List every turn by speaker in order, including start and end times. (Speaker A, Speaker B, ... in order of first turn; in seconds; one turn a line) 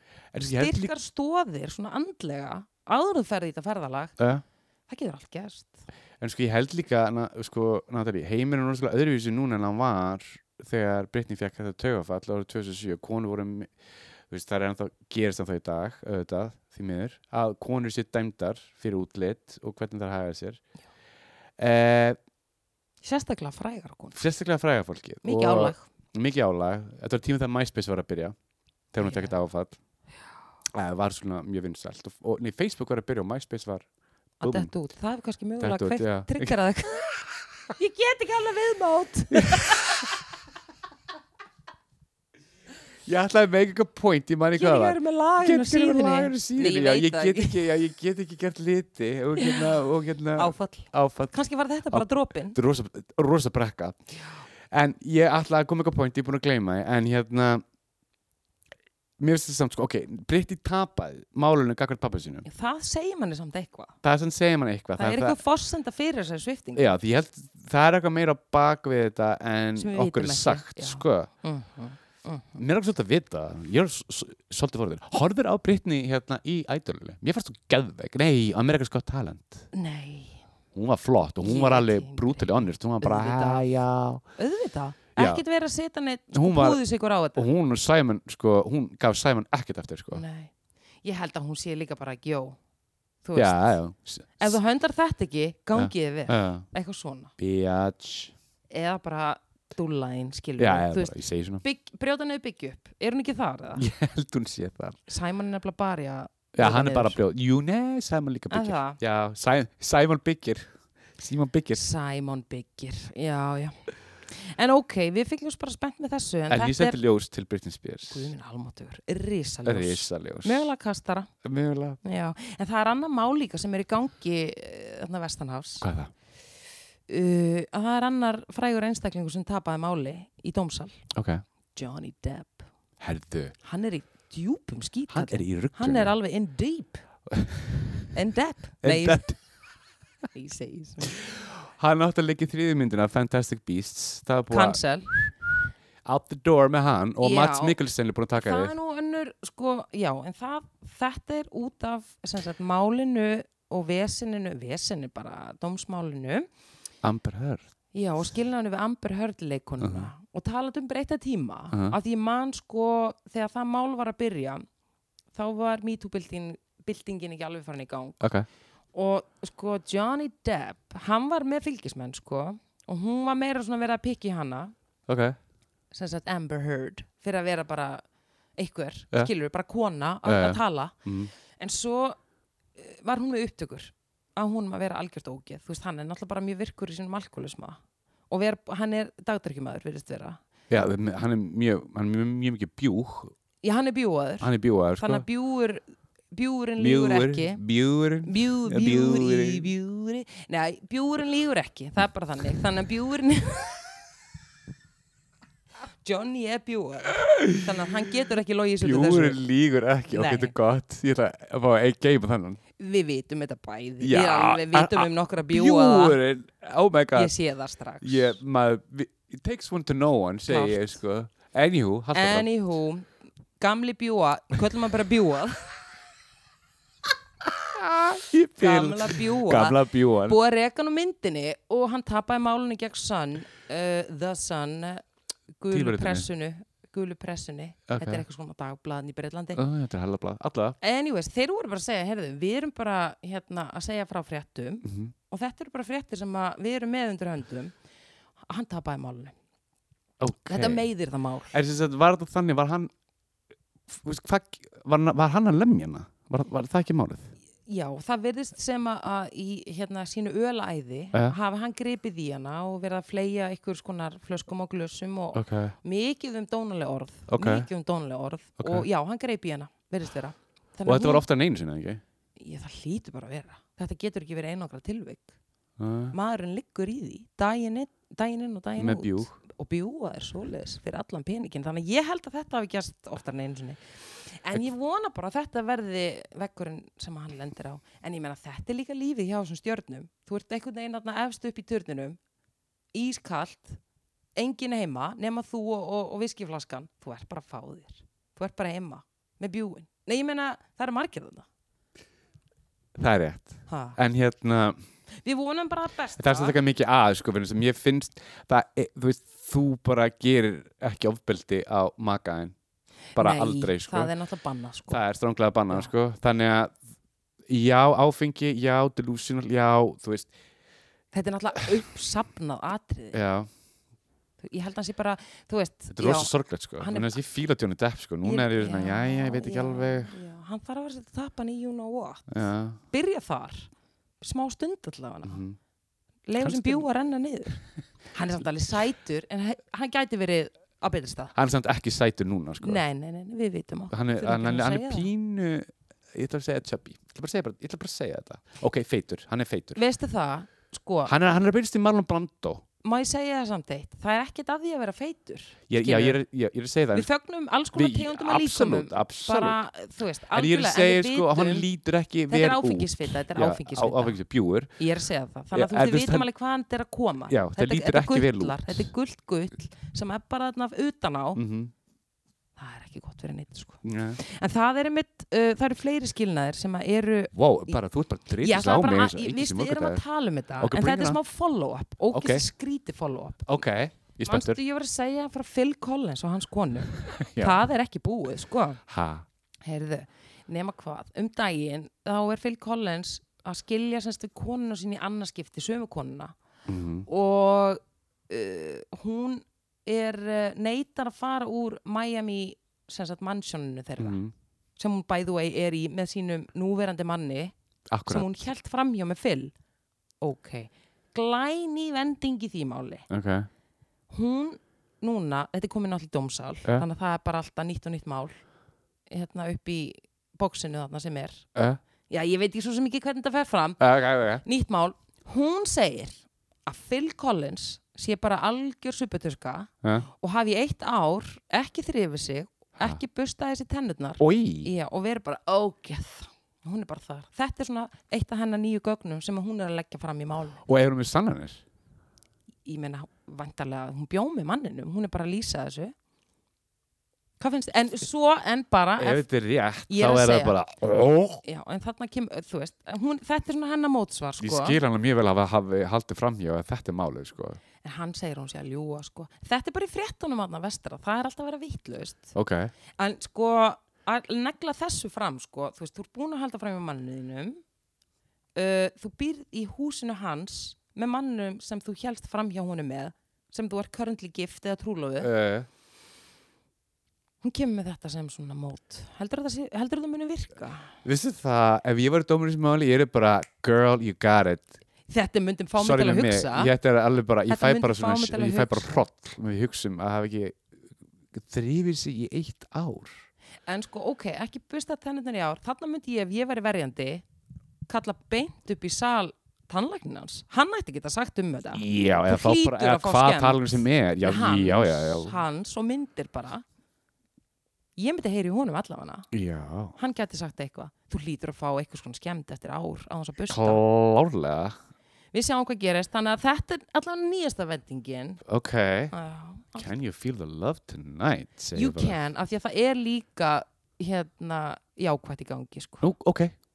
Speaker A: 0.3-0.9
Speaker B: 0.4-4.1
Speaker A: 4.2-4.4
Speaker B: 4.9-5.8
Speaker A: 6.2-13.7
Speaker A: 14.3-20.6
Speaker A: 21.6-22.2
Speaker B: 23.0-24.2
Speaker A: 24.1-28.3
Speaker B: 25.2-25.9
Speaker A: 28.9-29.8
Speaker B: 29.0-29.3
Speaker A: 30.7-33.9
Speaker A: 34.4-34.7
Speaker B: 34.4-37.1
Speaker A: 35.6-36.6
Speaker B: 37.7-39.8
Speaker A: 39.5-39.9
Speaker A: 43.0-51.4
Speaker B: 44.5-47.6
Speaker B: 49.4-49.8
Speaker B: 50.4-52.6
Speaker A: 51.9-54.0
Speaker A: 54.7-57.6
Speaker A: 59.2-62.5
Speaker B: 62.4-64.0
Speaker A: 64.0-65.4
Speaker B: 65.0-66.9
Speaker A: 66.8-71.3
Speaker B: 69.8-72.6
Speaker A: 72.5-79.7
Speaker B: 79.7-80.4
Speaker A: 80.7-84.2
Speaker B: 81.4-83.7
Speaker B: 84.3-87.5
Speaker A: 85.2-85.4
Speaker A: 86.3-86.8
Speaker A: 87.3-90.2
Speaker B: 90.1-90.5
Speaker B: 91.0-92.6
Speaker B: 93.2-93.8
Speaker A: 93.3-94.6
Speaker B: 94.4-97.3
Speaker A: 95.8-96.7
Speaker A: 97.4-98.3
Speaker B: 98.7-103.8
Speaker A: 100.6-101.6
Speaker A: 103.8-105.0
Speaker B: 105.1-107.2
Speaker A: 106.5-111.8
Speaker B: 108.5-109.0
Speaker B: 111.7-117.0
Speaker A: 116.5-118.3
Speaker B: 118.1-121.3
Speaker A: 119.7-120.7
Speaker A: 121.4-122.0
Speaker B: 122.0-125.9
Speaker A: 125.8-126.1
Speaker B: 127.1-131.1
Speaker A: 131.1-131.4
Speaker B: 131.7-132.7
Speaker A: 133.0-133.5
Speaker B: 133.6-137.0
Speaker A: 135.1-136.1
Speaker A: 137.3-138.1
Speaker B: 138.1-139.3
Speaker A: 138.8-139.4
Speaker B: 140.3-141.2
Speaker A: 141.2-145.3
Speaker B: 144.5-145.1
Speaker A: 146.0-148.7
Speaker B: 147.2-147.8
Speaker B: 148.4-156.5
Speaker A: 157.0-157.6
Speaker B: 157.9-164.6
Speaker A: 159.8-160.1
Speaker B: 165.3-168.3
Speaker A: 168.2-168.5
Speaker B: 168.9-174.7
Speaker A: 175.1-175.4
Speaker B: 175.9-178.0
Speaker B: 178.6-180.9
Speaker A: 180.2-181.3
Speaker B: 181.6-182.2
Speaker B: 182.8-190.4
Speaker A: 190.7-193.3
Speaker B: 193.6-197.6
Speaker A: 194.4-195.2
Speaker A: 196.8-199.7
Speaker B: 198.2-203.8
Speaker B: 206.0-209.4
Speaker A: 207.2-207.7
Speaker A: 208.8-212.6
Speaker B: 210.1-210.5
Speaker B: 212.8-216.2
Speaker A: 214.0-217.3
Speaker B: 217.1-218.4
Speaker A: 218.0-222.5
Speaker B: 220.5-221.0
Speaker B: 222.1-225.7
Speaker A: 227.6-230.4
Speaker B: 228.6-235.0
Speaker B: 235.6-239.6
Speaker A: 235.7-236.3
Speaker A: 237.9-238.2
Speaker A: 239.6-240.8
Speaker B: 240.8-247.7
Speaker A: 244.8-245.1
Speaker B: 248.5-249.3
Speaker A: 250.2-250.9
Speaker B: 250.5-251.5
Speaker A: 251.5-252.9
Speaker A: 253.9-257.3
Speaker B: 257.7-271.2
Speaker A: 265.3-265.7
Speaker A: 267.3-267.7
Speaker A: 268.6-268.9
Speaker A: 270.9-272.0
Speaker B: 272.4-275.3
Speaker A: 275.8-276.1
Speaker B: 276.1-292.2
Speaker A: 278.8-279.4
Speaker B: 292.9-293.8
Speaker B: 294.4-301.4
Speaker A: 302.9-304.8
Speaker B: 303.7-304.0
Speaker B: 305.2-306.6
Speaker A: 306.2-312.5
Speaker B: 313.1-315.0
Speaker A: 313.1-314.1
Speaker A: 314.9-316.8
Speaker A: 317.5-320.3
Speaker B: 321.1-323.2
Speaker A: 323.1-323.5
Speaker B: 324.4-327.2
Speaker A: 325.9-330.1
Speaker B: 328.2-333.7
Speaker A: 332.3-332.8
Speaker B: 334.2-335.4
Speaker A: 335.2-335.6
Speaker B: 336.3-341.3
Speaker A: 336.4-336.9
Speaker A: 341.3-342.8
Speaker B: 342.6-345.1
Speaker A: 343.9-349.8
Speaker B: 349.7-351.1
Speaker A: 351.1-352.6
Speaker B: 352.8-356.2
Speaker A: 355.7-357.1
Speaker B: 356.9-361.7
Speaker A: 357.7-359.6
Speaker A: 360.3-364.8
Speaker B: 362.3-364.2
Speaker B: 364.8-371.4
Speaker A: 365.5-366.2
Speaker A: 367.3-368.9
Speaker A: 371.4-371.7
Speaker B: 372.6-377.8
Speaker A: 373.8-374.2
Speaker A: 377.3-380.0
Speaker B: 378.4-383.5
Speaker A: 380.6-381.2
Speaker A: 382.1-382.4
Speaker A: 383.4-384.6
Speaker B: 384.2-388.8
Speaker A: 386.9-387.6
Speaker A: 388.9-389.2
Speaker B: 389.6-396.3
Speaker A: 396.6-397.1
Speaker B: 397.1-404.2
Speaker A: 404.0-404.3
Speaker B: 404.8-407.5
Speaker A: 407.9-408.3
Speaker B: 408.1-409.5
Speaker B: 410.2-413.1
Speaker A: 413.1-413.5
Speaker B: 414.1-418.4
Speaker B: 419.1-421.4
Speaker A: 421.5-421.8
Speaker B: 422.1-423.8
Speaker A: 423.8-424.4
Speaker B: 424.4-440.6
Speaker A: 434.2-434.7
Speaker A: 440.6-441.6
Speaker B: 442.6-445.9
Speaker B: 447.4-449.2
Speaker A: 449.0-451.4
Speaker B: 449.9-450.6
Speaker B: 451.4-454.8
Speaker A: 454.4-457.6
Speaker B: 457.8-462.3
Speaker A: 462.3-462.7
Speaker B: 463.0-467.6
Speaker B: 468.6-475.3
Speaker A: 475.2-475.7
Speaker B: 477.4-480.9
Speaker A: 481.0-484.8
Speaker B: 485.1-486.7
Speaker A: 485.8-490.6
Speaker B: 487.5-489.0
Speaker A: 491.3-493.2
Speaker B: 493.7-497.2
Speaker B: 497.9-506.6
Speaker A: 501.7-505.4
Speaker B: 508.0-509.3
Speaker A: 509.3-509.9
Speaker B: 509.9-513.8
Speaker A: 513.5-514.8
Speaker B: 515.3-518.4
Speaker A: 518.5-519.1
Speaker B: 519.1-519.9
Speaker A: 519.7-522.2
Speaker B: 521.7-526.1
Speaker A: 526.0-526.5